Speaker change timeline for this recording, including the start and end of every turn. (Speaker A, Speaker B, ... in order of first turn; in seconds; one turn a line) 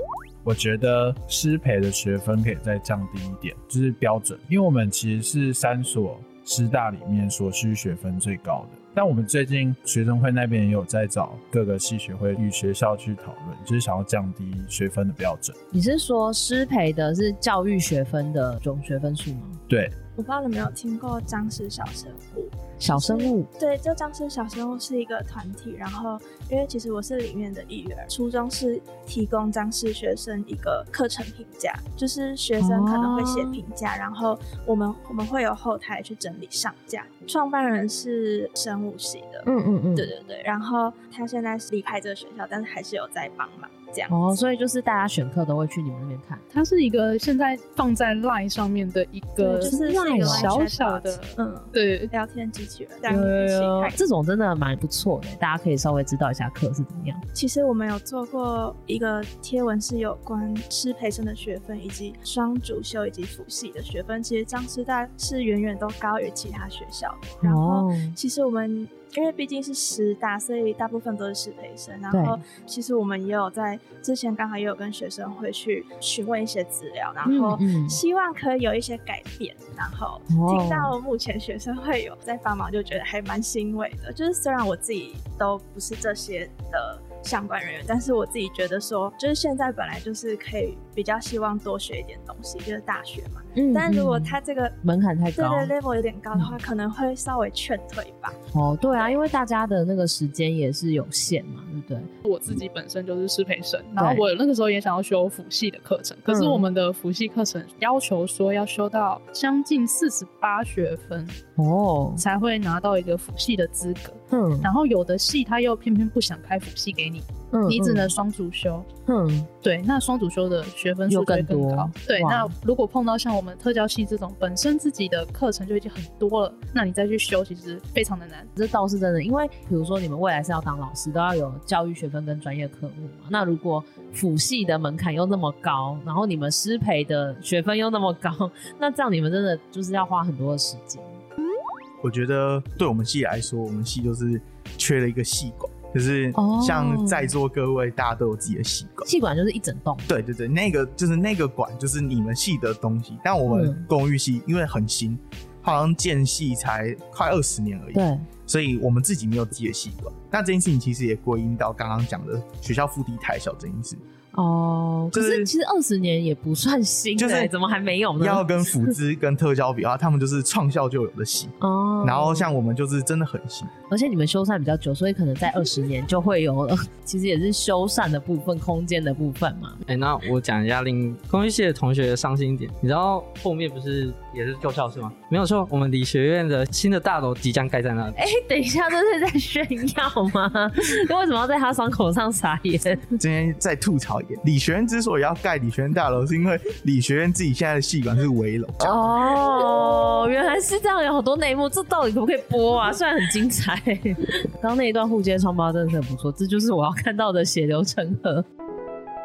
Speaker A: 0.4-15.6
Speaker B: 15.7-19.6
Speaker A: 19.7-19.9
Speaker C: 20.1-44.3
Speaker B: 22.8-23.5
Speaker B: 32.6-33.6
Speaker B: 39.4-40.1
Speaker B: 44.1-46.4
Speaker D: 46.5-52.1
Speaker C: 49.4-54.0
Speaker B: 49.6-50.6
Speaker B: 53.1-57.2
Speaker C: 57.3-94.8
Speaker B: 67.4-68.1
Speaker B: 72.1-72.4
Speaker B: 77.2-78.0
Speaker B: 80.3-80.9
Speaker B: 93.6-95.7
Speaker C: 95.3-98.4
Speaker B: 98.5-102.1
Speaker C: 98.9-99.2
Speaker D: 102.2-111.4
Speaker B: 104.0-104.3
Speaker B: 106.3-106.7
Speaker B: 111.6-112.2
Speaker D: 112.2-118.9
Speaker B: 114.3-114.7
Speaker B: 117.5-118.1
Speaker B: 119.1-119.5
Speaker D: 119.6-128.5
Speaker B: 121.1-122.5
Speaker B: 128.6-141.2
Speaker E: 142.0-149.1
Speaker B: 146.3-147.3
Speaker B: 149.1-150.1
Speaker E: 150.1-164.0
Speaker B: 153.4-153.8
Speaker B: 157.9-158.3
Speaker B: 164.3-168.9
Speaker E: 165.1-165.5
Speaker E: 167.2-167.5
Speaker E: 168.2-173.7
Speaker B: 171.6-172.6
Speaker B: 173.9-179.8
Speaker F: 179.9-188.2
Speaker B: 188.2-193.2
Speaker E: 193.2-199.2
Speaker B: 198.8-208.4